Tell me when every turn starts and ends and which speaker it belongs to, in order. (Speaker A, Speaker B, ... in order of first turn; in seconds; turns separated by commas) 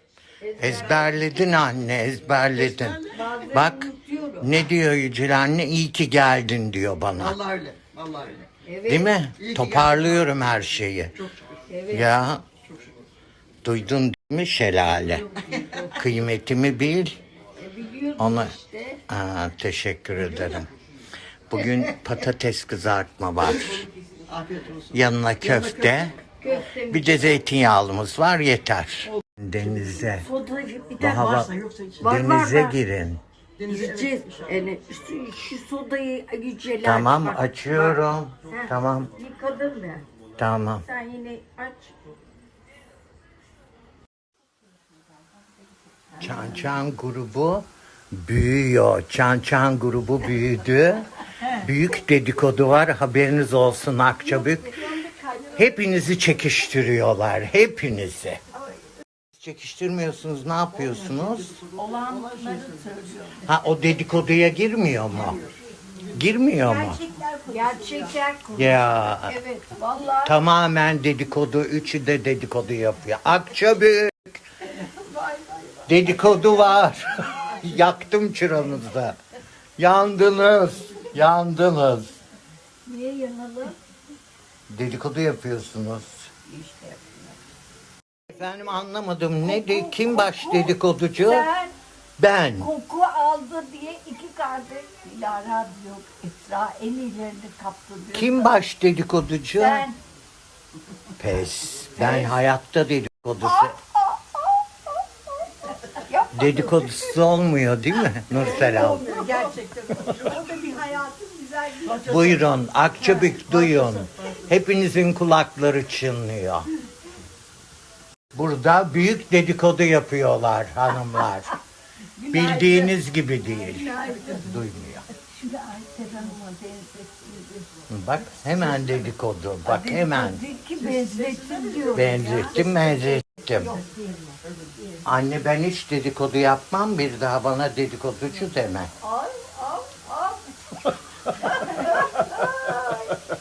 Speaker A: 0.4-1.3, Speaker B: 0.6-7.4, Speaker C: 2.7-3.2, Speaker A: 3.1-4.7, Speaker C: 7.2-8.5, Speaker A: 8.6-9.2, Speaker B: 8.9-11.2, Speaker C: 9.4-10.0, Speaker A: 11.7-12.2, Speaker B: 11.9-12.4, Speaker B: 13.6-17.2, Speaker A: 15.5-15.9, Speaker A: 17.6-19.0, Speaker B: 18.2-18.6, Speaker B: 19.1-20.7, Speaker B: 21.5-23.9, Speaker C: 23.6-24.9, Speaker B: 24.9-26.2, Speaker C: 25.5-26.1, Speaker A: 26.4-27.4, Speaker B: 26.7-30.3, Speaker A: 30.2-31.4, Speaker B: 31.0-33.2, Speaker C: 31.2-32.0, Speaker A: 32.0-32.8, Speaker C: 33.6-34.5, Speaker A: 33.6-40.1, Speaker B: 36.8-39.1, Speaker B: 40.4-40.8, Speaker A: 40.9-42.0, Speaker A: 46.1-46.7, Speaker B: 46.2-54.9, Speaker A: 54.2-55.7, Speaker B: 55.5-58.4, Speaker B: 59.4-61.6, Speaker C: 61.6-63.0, Speaker A: 61.8-63.5, Speaker B: 63.4-65.4, Speaker B: 66.1-67.1, Speaker A: 66.6-70.4, Speaker B: 68.5-69.4, Speaker B: 70.2-74.4, Speaker A: 75.0-75.2, Speaker B: 75.9-79.2, Speaker B: 79.8-82.2, Speaker A: 82.9-83.8, Speaker B: 84.7-86.3, Speaker A: 86.5-87.4, Speaker B: 88.3-91.5, Speaker A: 89.4-91.8, Speaker B: 92.2-92.7, Speaker A: 92.6-98.6, Speaker B: 98.1-99.9, Speaker A: 99.6-100.0, Speaker B: 101.2-103.8, Speaker A: 102.0-102.4, Speaker A: 103.4-104.6, Speaker A: 105.9-107.2, Speaker B: 106.3-109.1, Speaker C: 108.3-110.6, Speaker A: 108.4-112.4, Speaker B: 112.0-116.7, Speaker C: 113.3-114.0, Speaker B: 118.3-121.6, Speaker A: 122.2-122.9, Speaker B: 122.3-125.0, Speaker A: 123.5-124.6, Speaker A: 125.2-127.7, Speaker B: 127.9-130.4, Speaker A: 129.7-134.4, Speaker C: 130.8-132.4, Speaker B: 131.9-133.8, Speaker B: 135.1-138.9, Speaker A: 139.0-140.5, Speaker A: 141.3-143.2